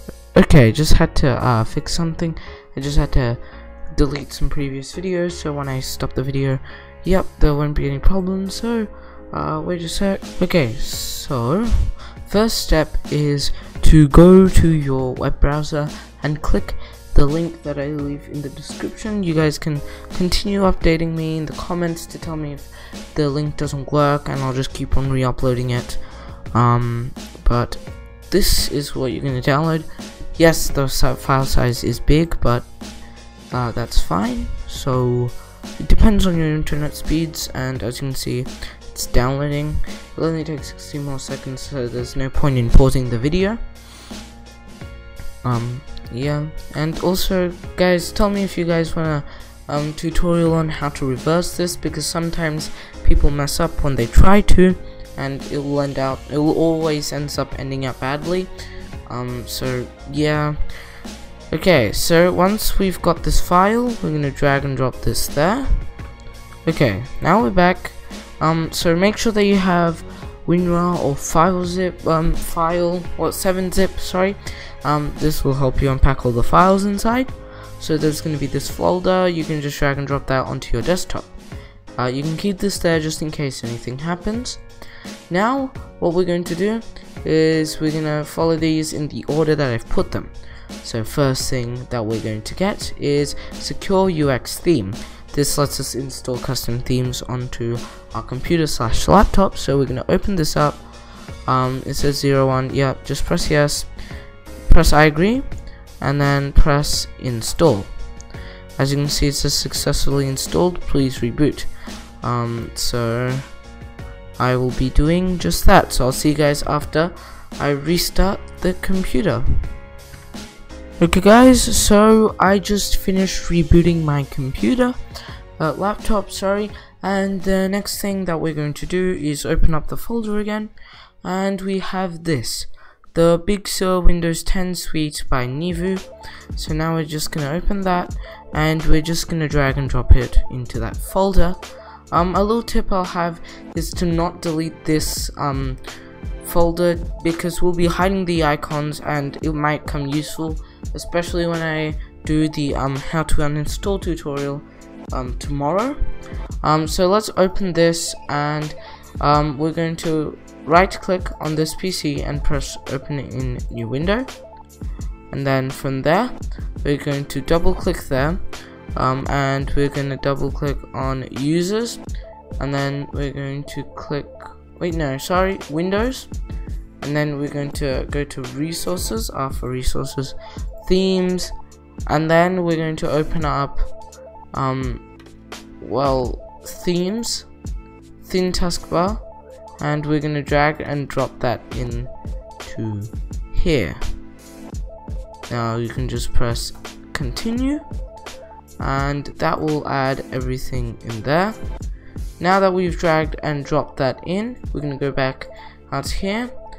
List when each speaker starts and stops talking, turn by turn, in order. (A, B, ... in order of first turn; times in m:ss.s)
0:00.3-0:03.4 A
0:03.9-0:26.0 A
0:26.5-0:32.7 A
0:33.5-0:43.6 A
0:45.4-0:58.5 A
0:59.1-1:00.6 A
1:01.5-1:05.8 A
1:06.6-1:21.3 A
1:22.0-1:24.6 A
1:25.3-1:40.8 A
1:41.4-1:43.9 A
1:44.7-1:45.5 A
1:46.0-1:47.9 A
1:48.8-1:51.7 A
1:52.2-1:53.4 A
1:54.4-1:59.6 A
2:01.0-2:05.0 A
2:05.6-2:10.7 A
2:11.2-2:21.6 A
2:22.1-2:25.8 A
2:26.4-2:36.0 A
2:36.6-2:44.3 A
2:45.3-2:48.4 A
2:49.0-2:52.0 A
2:52.6-2:56.3 A
2:57.0-3:01.5 A
3:02.1-3:03.9 A
3:04.5-3:05.0 A
3:05.8-3:07.5 A
3:08.2-3:09.2 A
3:09.8-3:12.1 A
3:12.6-3:14.0 A
3:15.5-3:17.8 A
3:18.8-3:21.6 A
3:22.4-3:26.6 A